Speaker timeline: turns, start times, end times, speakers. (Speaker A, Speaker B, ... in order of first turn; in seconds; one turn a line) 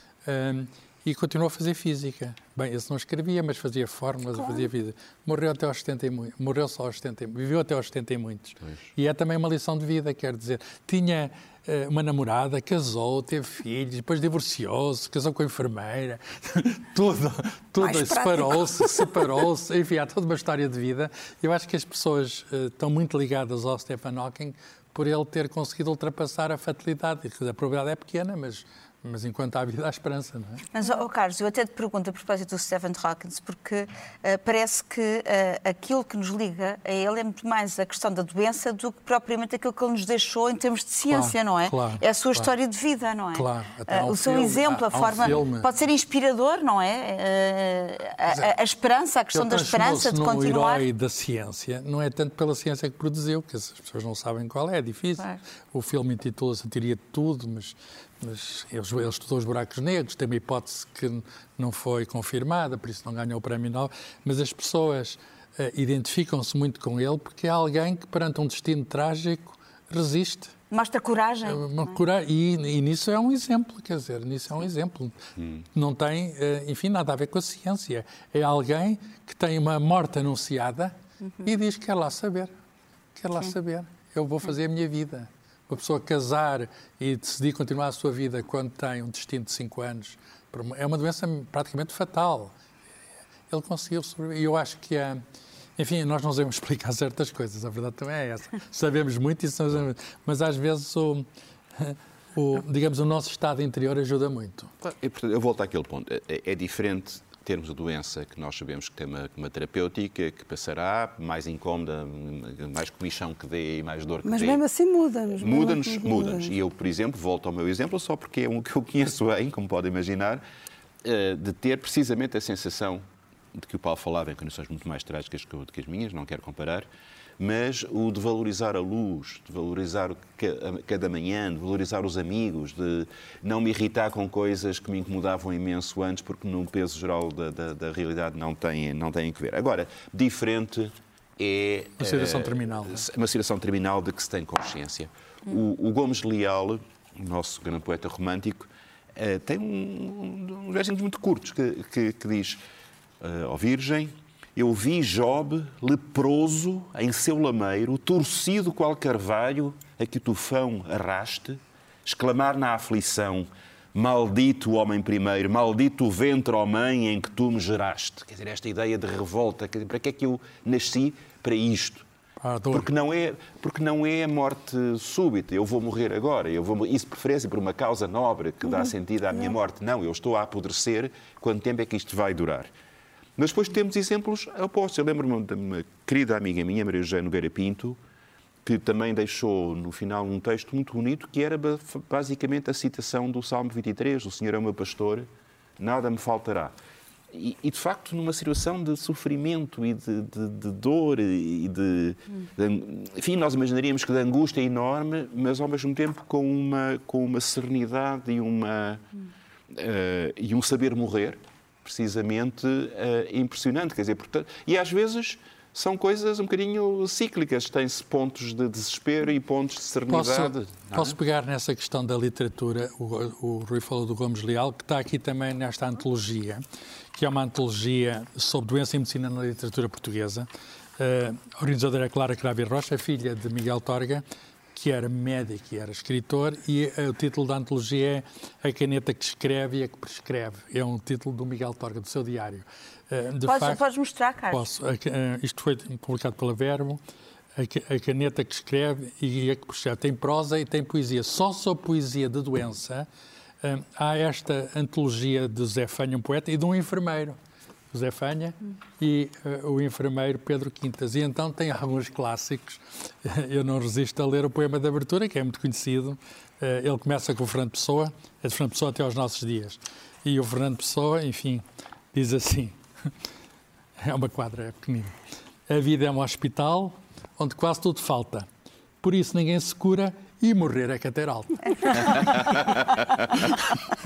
Speaker A: 0.2-30.6
Speaker B: 4.3-4.7
Speaker B: 17.8-19.3
Speaker C: 30.7-50.9
Speaker A: 41.1-42.5
Speaker A: 43.3-45.7
Speaker A: 49.3-70.5
Speaker C: 70.7-72.0
Speaker A: 71.5-82.5
Speaker A: 83.2-92.5
Speaker A: 93.5-95.2
Speaker A: 95.8-104.7
Speaker D: 104.8-114.6
Speaker B: 114.2-116.5
Speaker D: 115.3-120.4
Speaker D: 121.0-123.0
Speaker D: 123.5-126.9
Speaker D: 127.4-152.6
Speaker A: 142.0-143.0
Speaker D: 153.2-172.1
Speaker A: 172.4-172.9
Speaker D: 172.7-182.7
Speaker D: 183.4-188.0
Speaker D: 188.6-196.7
Speaker D: 197.3-209.0
Speaker D: 209.7-221.2
Speaker A: 220.1-243.8
Speaker C: 243.4-244.7
Speaker A: 244.5-247.0
Speaker A: 247.6-253.1
Speaker A: 253.6-257.4
Speaker A: 257.9-273.1
Speaker A: 274.0-278.5
Speaker A: 279.0-283.6